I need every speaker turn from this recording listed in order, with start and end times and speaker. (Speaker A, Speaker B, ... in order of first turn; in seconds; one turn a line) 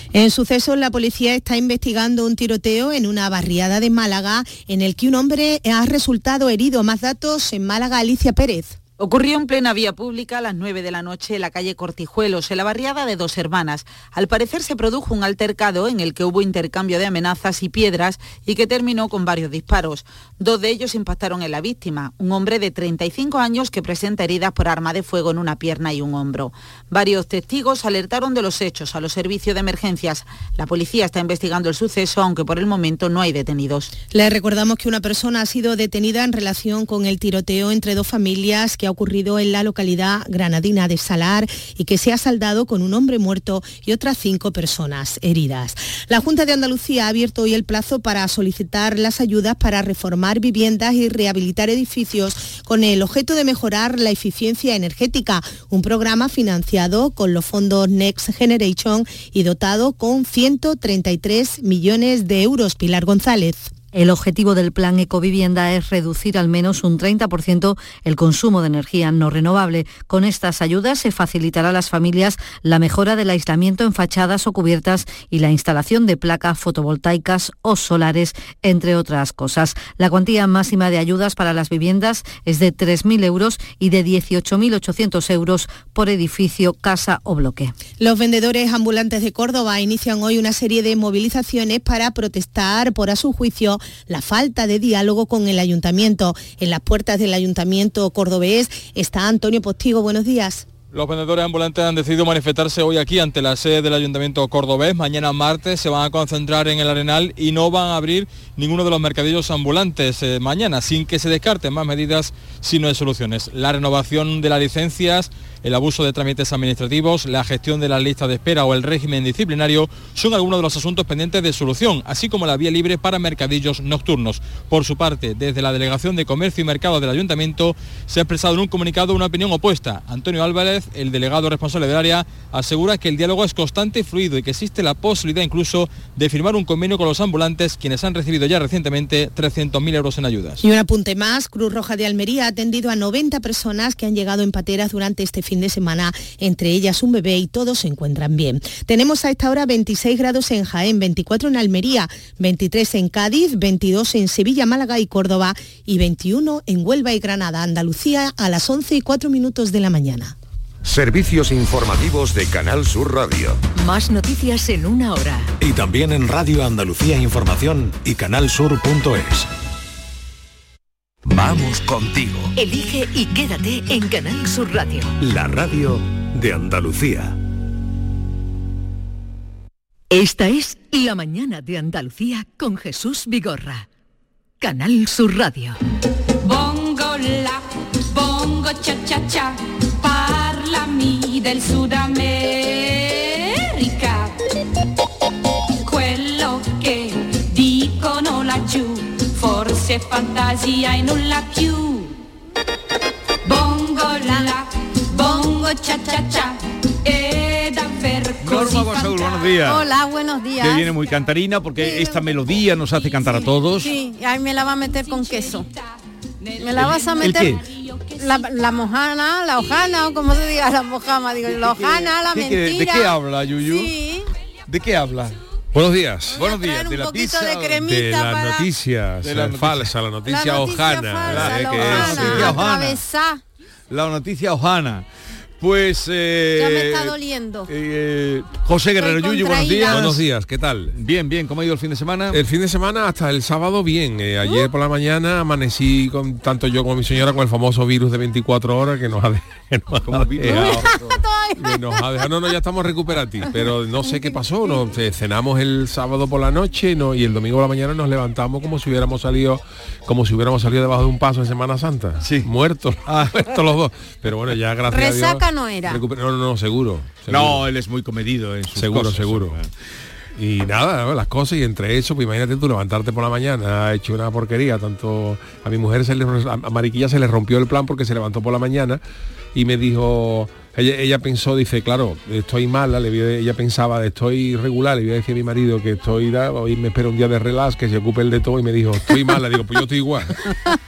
Speaker A: 0.1-8.8
Speaker B: 9.0-34.0
Speaker A: 34.1-63.7
Speaker C: 63.9-87.7
Speaker A: 88.0-100.7
Speaker D: 100.9-140.6
Speaker A: 140.6-160.3
Speaker E: 160.9-163.6
Speaker F: 163.8-165.5
Speaker E: 165.6-169.4
Speaker E: 171.3-172.5
Speaker F: 172.6-175.1
Speaker E: 175.2-177.3
Speaker F: 180.1-183.9
Speaker F: 184.6-185.8
Speaker G: 186.4-194.4
Speaker G: 195.8-202.2
Speaker G: 203.4-209.1
Speaker H: 208.4-209.9
Speaker I: 208.7-210.9
Speaker H: 210.6-213.9
Speaker I: 211.8-212.4
Speaker I: 213.8-215.7
Speaker G: 215.1-215.8
Speaker G: 216.4-218.5
Speaker I: 216.6-217.6
Speaker H: 216.8-217.6
Speaker I: 218.2-224.3
Speaker H: 221.4-223.9
Speaker H: 224.7-225.4
Speaker J: 225.7-226.4
Speaker H: 226.3-227.8
Speaker I: 226.4-228.7
Speaker J: 227.8-232.6
Speaker H: 229.2-229.9
Speaker I: 230.3-233.4
Speaker H: 231.3-233.0
Speaker H: 233.9-235.1
Speaker H: 235.6-237.2
Speaker I: 236.6-237.7
Speaker H: 237.7-240.2
Speaker I: 238.9-240.1
Speaker J: 239.8-240.9
Speaker H: 240.9-242.4
Speaker J: 242.3-251.0
Speaker H: 250.1-251.2
Speaker I: 250.4-252.2
Speaker J: 251.6-267.6
Speaker H: 262.2-262.5
Speaker H: 263.1-263.4
Speaker I: 264.9-266.0
Speaker H: 267.3-269.7
Speaker J: 268.8-269.6
Speaker J: 270.4-279.0
Speaker J: 279.6-290.6